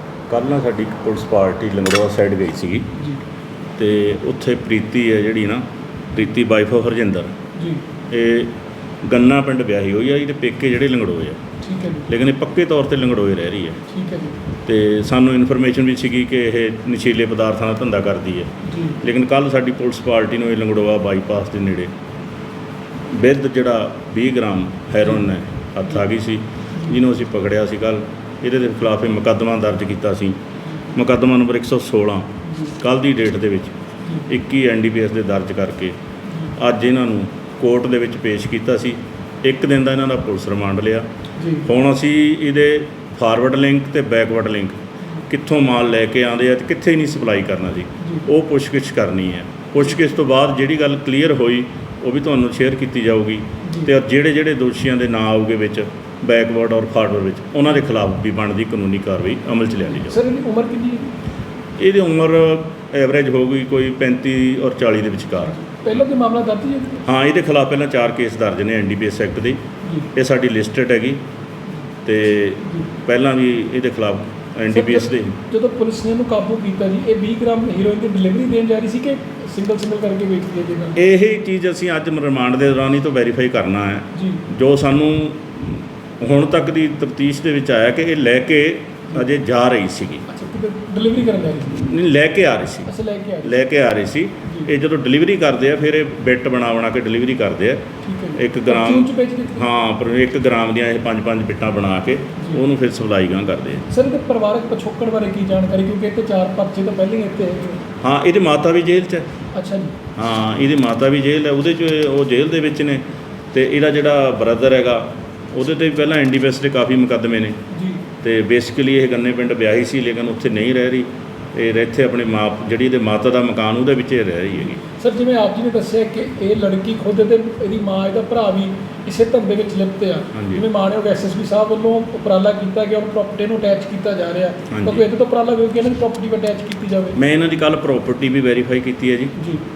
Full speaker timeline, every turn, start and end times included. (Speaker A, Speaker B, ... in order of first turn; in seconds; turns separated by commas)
Speaker A: 0.3-2.9, Speaker A: 3.8-7.3, Speaker B: 7.6-7.8, Speaker A: 8.1-11.4, Speaker B: 11.6-12.1, Speaker A: 12.1-13.8, Speaker B: 13.9-14.4, Speaker A: 14.6-21.9, Speaker B: 18.6-19.0, Speaker A: 23.1-30.4, Speaker A: 30.9-33.8, Speaker B: 32.5-32.7, Speaker A: 34.2-36.0, Speaker A: 36.6-41.0, Speaker B: 41.4-41.7, Speaker A: 41.6-60.2, Speaker B: 48.0-48.3, Speaker B: 53.6-53.9, Speaker B: 59.9-61.1, Speaker A: 61.8-65.5, Speaker B: 65.4-67.0, Speaker A: 67.0-69.6, Speaker B: 69.8-70.1, Speaker A: 70.1-71.2, Speaker A: 72.0-75.3, Speaker B: 72.6-72.9, Speaker B: 74.7-81.0, Speaker A: 81.0-90.3, Speaker B: 84.1-84.4, Speaker B: 90.3-91.8, Speaker A: 91.7-92.9, Speaker B: 92.9-93.5, Speaker A: 93.4-103.9, Speaker B: 98.0-99.7, Speaker B: 102.4-102.6, Speaker B: 103.9-107.8, Speaker A: 108.0-109.3, Speaker B: 109.5-109.9, Speaker A: 110.2-113.0, Speaker A: 113.5-117.5, Speaker B: 117.7-118.0, Speaker A: 118.2-124.8, Speaker B: 124.7-137.2, Speaker A: 130.3-130.6, Speaker A: 134.7-135.1, Speaker A: 137.2-139.3, Speaker B: 139.4-139.6